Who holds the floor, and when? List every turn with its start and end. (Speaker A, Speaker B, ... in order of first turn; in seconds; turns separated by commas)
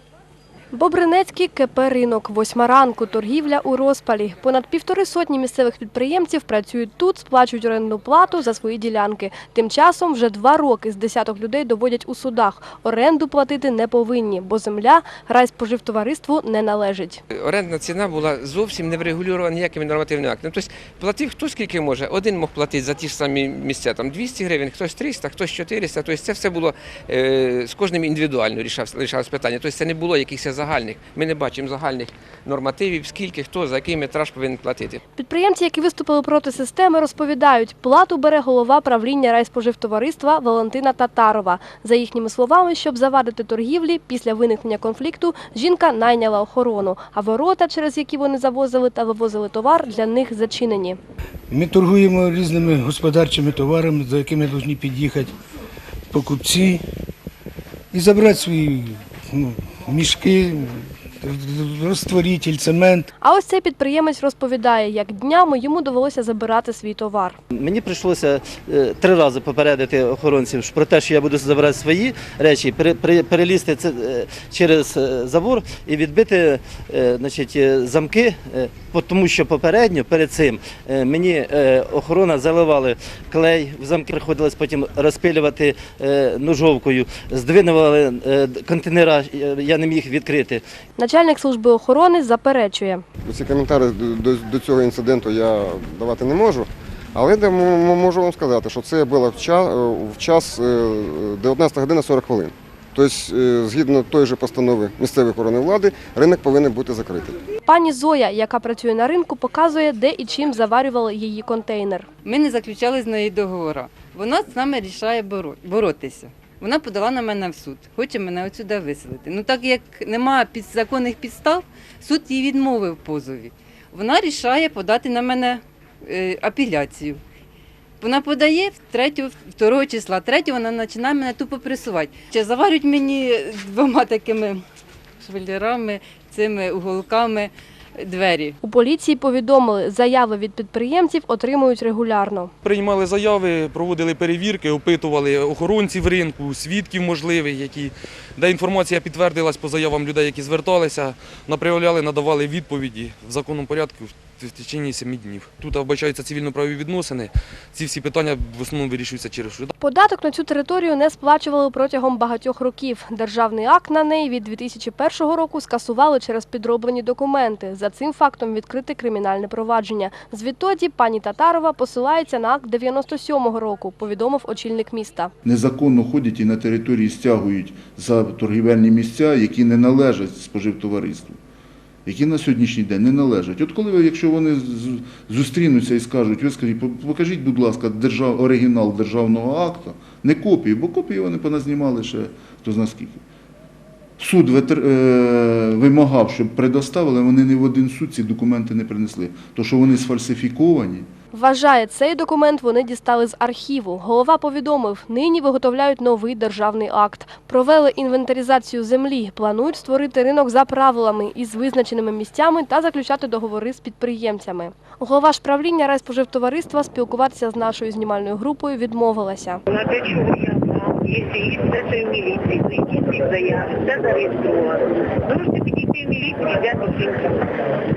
Speaker A: 0.7-17.2, Speaker B: 17.3-35.0, Speaker A: 35.2-51.0, Speaker C: 51.5-55.3, Speaker C: 56.1-56.8, Speaker C: 57.9-60.6, Speaker C: 61.3-63.0, Speaker A: 63.2-67.4, Speaker D: 67.5-90.6, Speaker A: 91.0-93.0, Speaker E: 93.2-107.4, Speaker A: 107.7-112.1, Speaker F: 112.2-127.2, Speaker F: 128.0-134.6, Speaker F: 135.2-138.6, Speaker A: 138.6-142.5, Speaker G: 142.6-159.7, Speaker A: 159.8-175.3, Speaker H: 175.4-181.4, Speaker H: 182.1-193.2, Speaker H: 194.2-201.1, Speaker A: 201.3-219.6, Speaker I: 219.7-227.4